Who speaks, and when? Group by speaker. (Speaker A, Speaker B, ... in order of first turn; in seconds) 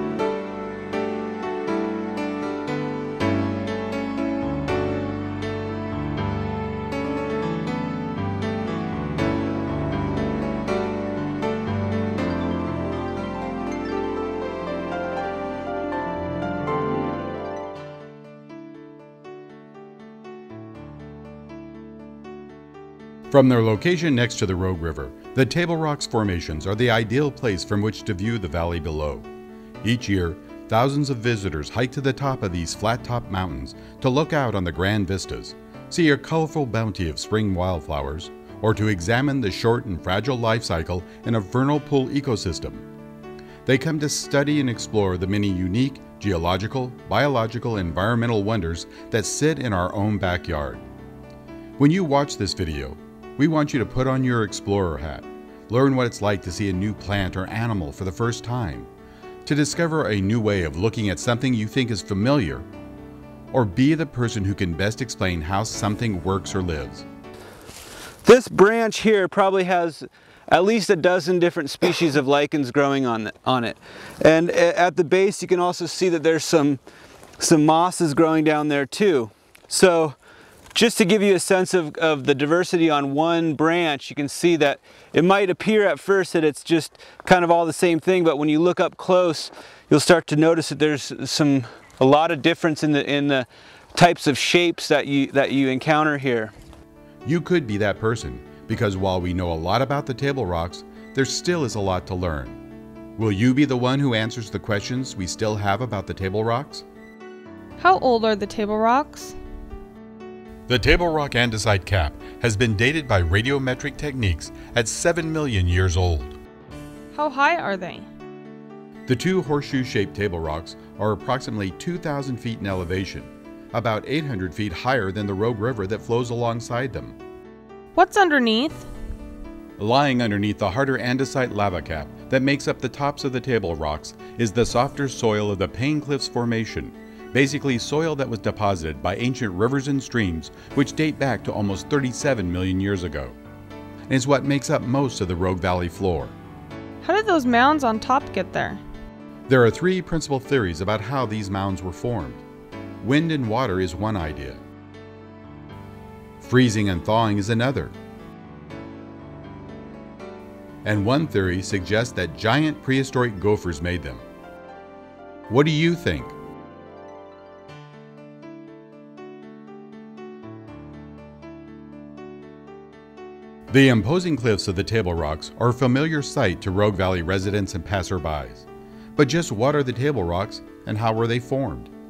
Speaker A: 23.3-29.3, 29.8-42.9, 43.6-50.8, 51.8-58.9, 59.4-62.7, 63.5-67.0, 97.2-102.6, 103.2-106.8, 110.7-116.4, 119.1-127.2, 129.8-143.3, 144.1-146.3, 149.5-152.4, 153.0-154.6, 156.4-157.9, 160.8-164.2, 165.5-166.3, 173.7-181.9
Speaker B: 68.2-76.8, 77.4-80.2, 80.7-96.5
Speaker C: 107.8-109.3, 117.1-118.1, 127.9-128.9, 147.0-148.8